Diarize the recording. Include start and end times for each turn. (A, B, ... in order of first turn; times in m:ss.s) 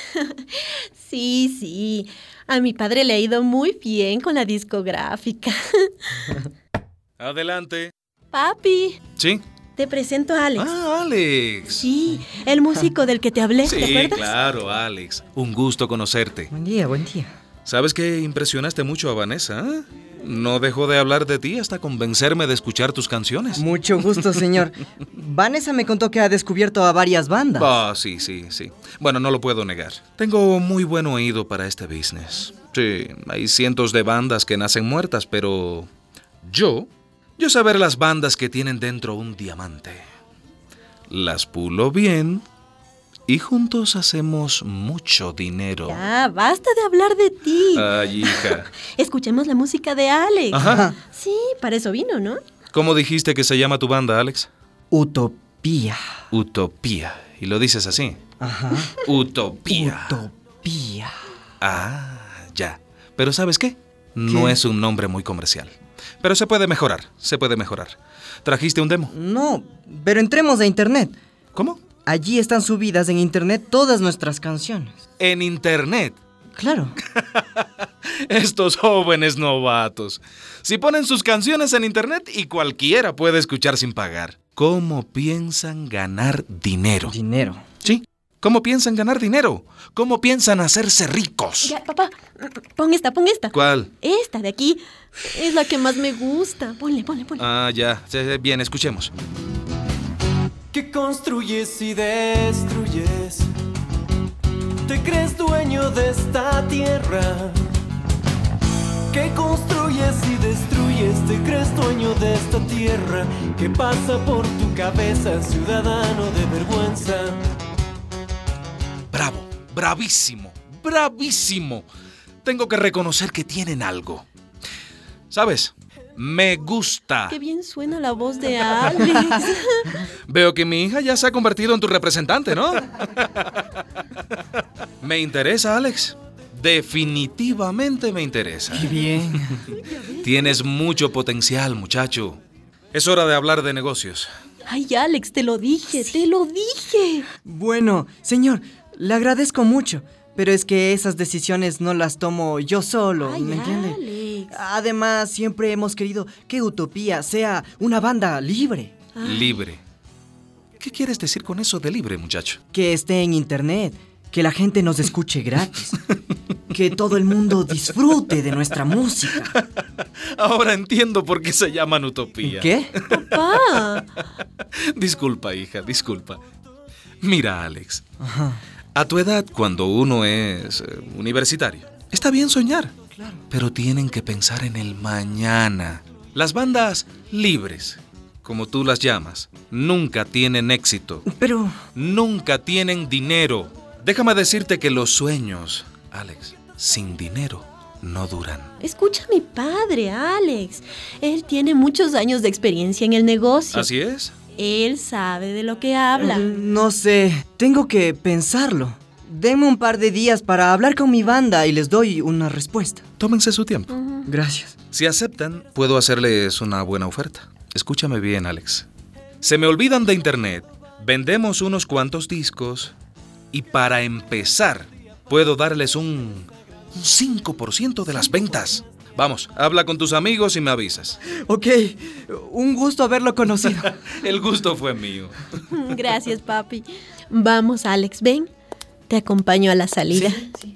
0:00.2-0:06.4 A
0:07.2-0:07.9 B
0:08.3-0:09.0 A
0:09.2-0:09.4 B
0:09.8-0:10.7 A
0:10.6-0:11.8 B
0:11.8-0:14.3 A
0:13.6-0:16.5 B
0:16.5-0:17.3 C
0:17.6-0:23.6 B
0:23.5-0:27.7 C
0:27.6-0:35.9 B
0:36.4-0:40.0 B
0:41.1-0:42.4 B
0:43.3-0:46.0 B
0:45.8-0:52.4 A
0:47.7-0:48.7 B
0:50.5-0:50.8 B
0:50.6-0:51.0 C
0:52.7-0:54.5 B
0:54.9-0:56.0 C
0:56.3-0:58.2 B
0:58.4-0:58.9 C
0:59.0-1:00.2 B
0:59.7-1:01.1 C
1:01.6-1:09.1 B
1:04.2-1:04.6 C
1:09.1-1:11.2 C
1:11.5-1:11.8 B
1:12.0-1:15.0 C
1:15.2-1:16.2 B
1:16.6-1:17.0 C
1:17.3-1:17.7 B
1:18.3-1:27.1 B
1:27.0-1:27.6 C
1:27.8-1:31.7 B
1:31.6-1:37.4 A
1:33.5-1:33.9 B
1:37.4-1:39.1 B
1:40.7-1:43.5 D
1:44.8-1:47.6 D
1:49.1-1:57.4 D
1:59.1-2:01.9 B
2:02.4-2:04.2 B
2:05.3-2:07.4 B
2:07.3-2:09.9 A
2:10.3-2:13.5 B
2:15.0-2:19.0 B
2:18.7-2:19.6 C
2:20.2-2:22.4 B
2:22.9-2:24.3 B
2:24.6-2:27.3 A
2:27.4-2:38.9 C
2:33.2-2:34.6 A
2:39.1-2:39.6 A
2:39.2-2:39.8 B
2:40.8-2:42.6 B
2:42.7-2:46.0 C
2:46.7-2:49.5 C
2:50.4-2:53.4 B
2:52.4-2:52.9 C
2:53.1-2:54.0 A
2:54.9-2:56.4 B
2:57.2-2:58.0 B
2:58.2-2:58.6 C
2:58.9-3:02.9 B
3:03.1-3:03.4 C
3:03.5-3:11.2 B
3:11.2-3:11.8 C
3:11.9-3:18.7 B
3:18.8-3:23.9 A
3:23.7-3:24.3 B
3:24.6-3:26.5 A
3:26.2-3:33.0 C
3:33.2-3:33.9 B
3:33.9-3:34.3 A
3:34.2-3:34.8 C
3:34.9-3:38.8 B
3:39.4-3:42.9 B
3:43.5-3:51.2 B
3:51.5-3:53.9 C
3:54.2-3:55.4 B
3:55.7-3:58.5 A
3:59.1-4:00.4 A